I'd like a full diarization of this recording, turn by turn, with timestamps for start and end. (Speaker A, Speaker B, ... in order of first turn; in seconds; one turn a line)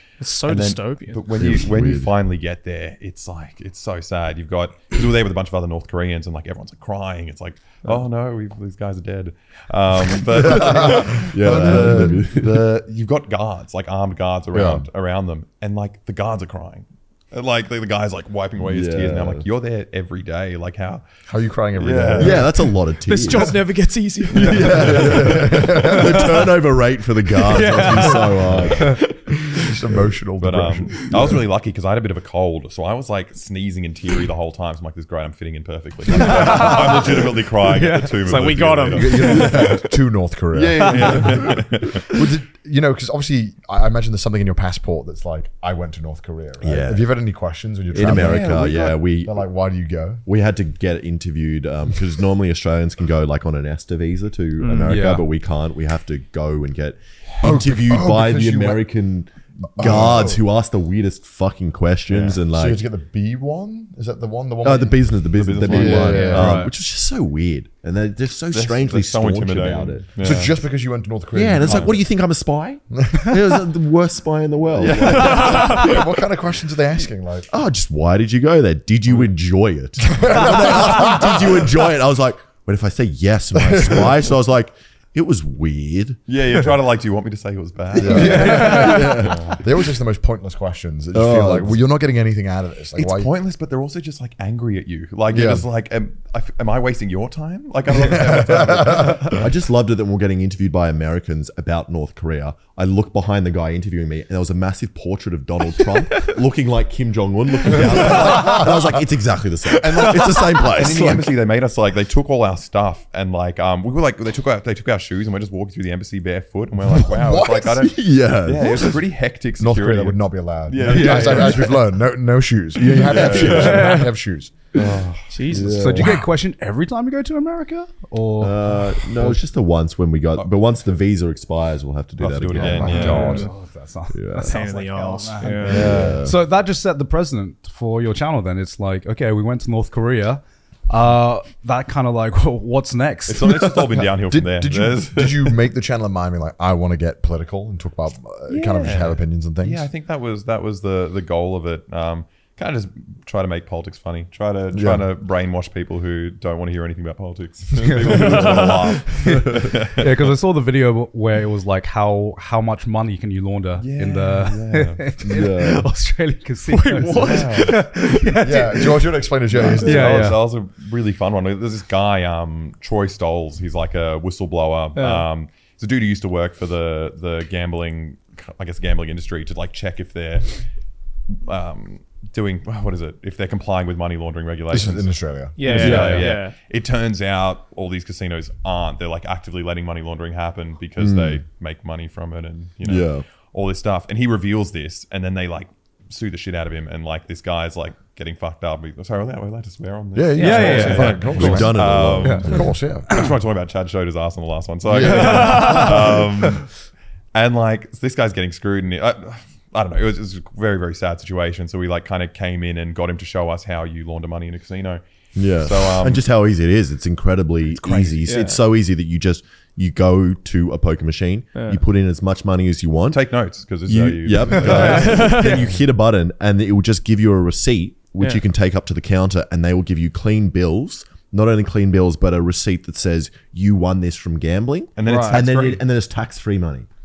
Speaker A: 0.2-1.2
Speaker B: 0.5-21.0
Speaker C: 1.4-2.1
Speaker D: 10.4-12.9
Speaker C: 10.5-12.6
Speaker D: 14.5-14.9
Speaker C: 18.6-19.4
Speaker D: 21.3-22.5
Speaker B: 21.8-22.5
Speaker C: 22.2-23.6
Speaker A: 23.1-25.2
Speaker B: 24.3-25.1
Speaker C: 24.3-30.0
Speaker D: 24.5-26.4
Speaker E: 27.5-29.0
Speaker A: 27.6-28.1
Speaker B: 28.4-28.8
Speaker D: 29.5-31.4
Speaker B: 30.4-39.8
Speaker E: 36.1-37.0
Speaker A: 36.2-37.1
Speaker A: 37.8-39.7
Speaker E: 37.8-38.2
Speaker D: 38.9-50.2
Speaker B: 40.5-42.1
Speaker C: 40.8-41.5
Speaker C: 46.6-47.1
Speaker C: 47.9-49.4
Speaker B: 48.0-49.0
Speaker C: 50.2-62.8
Speaker A: 54.6-54.9
Speaker E: 54.8-55.3
Speaker D: 57.4-58.9
Speaker D: 59.8-60.4
Speaker B: 62.1-62.4
Speaker D: 62.5-66.6
Speaker C: 64.6-70.1
Speaker B: 65.3-66.5
Speaker A: 66.1-66.5
Speaker E: 66.2-66.7
Speaker B: 68.5-70.5
Speaker D: 70.2-72.0
Speaker C: 71.3-75.8
Speaker B: 71.6-71.9
Speaker D: 73.0-73.4
Speaker B: 74.8-76.0
Speaker D: 75.1-77.5
Speaker A: 75.1-75.8
Speaker C: 77.5-86.2
Speaker D: 80.0-81.8
Speaker D: 83.5-84.2
Speaker B: 86.3-89.6
Speaker D: 88.0-93.3
Speaker C: 88.0-89.5
Speaker C: 91.1-91.8
Speaker B: 93.0-99.5
Speaker D: 95.3-95.7
Speaker D: 98.0-99.3
Speaker C: 99.3-111.4
Speaker B: 108.1-108.4
Speaker D: 108.1-108.6
Speaker B: 109.7-121.8
Speaker D: 117.0-117.9
Speaker C: 117.8-119.0
Speaker D: 119.6-124.5
Speaker E: 120.9-121.6
Speaker C: 122.9-124.0
Speaker B: 123.0-124.0
Speaker A: 123.4-124.1
Speaker B: 124.7-125.9
Speaker A: 125.3-125.9
Speaker C: 125.5-126.1
Speaker E: 125.8-129.4
Speaker D: 126.0-126.3
Speaker C: 128.4-133.4
Speaker B: 132.2-133.5
Speaker D: 132.5-133.5
Speaker E: 132.8-143.6
Speaker C: 134.1-134.6
Speaker A: 134.4-136.1
Speaker B: 135.6-136.2
Speaker C: 135.6-136.4
Speaker D: 135.7-136.2
Speaker B: 143.3-145.6
Speaker D: 144.0-149.9
Speaker B: 148.5-160.3
Speaker D: 154.7-155.0
Speaker E: 157.8-169.1
Speaker A: 158.1-159.0
Speaker B: 163.8-165.0
Speaker C: 165.2-165.9
Speaker A: 166.7-167.9
Speaker B: 167.1-167.8
Speaker D: 168.4-170.3
Speaker B: 169.5-180.5
Speaker E: 169.8-170.4
Speaker A: 175.0-175.3
Speaker B: 181.4-206.7
Speaker D: 184.7-185.6
Speaker A: 185.6-186.5
Speaker E: 185.7-186.3
Speaker C: 191.0-191.4
Speaker C: 192.8-193.2
Speaker D: 200.1-203.3
Speaker E: 200.4-201.7
Speaker A: 200.4-200.9
Speaker C: 201.2-202.6
Speaker E: 202.2-202.6
Speaker D: 204.9-206.2
Speaker E: 205.0-206.0
Speaker B: 207.3-215.0
Speaker C: 215.4-223.3
Speaker B: 215.6-216.2
Speaker D: 217.7-218.4
Speaker A: 218.2-218.6
Speaker B: 223.1-225.5
Speaker C: 223.9-236.9
Speaker A: 224.6-225.7
Speaker B: 235.0-235.8
Speaker A: 235.1-235.5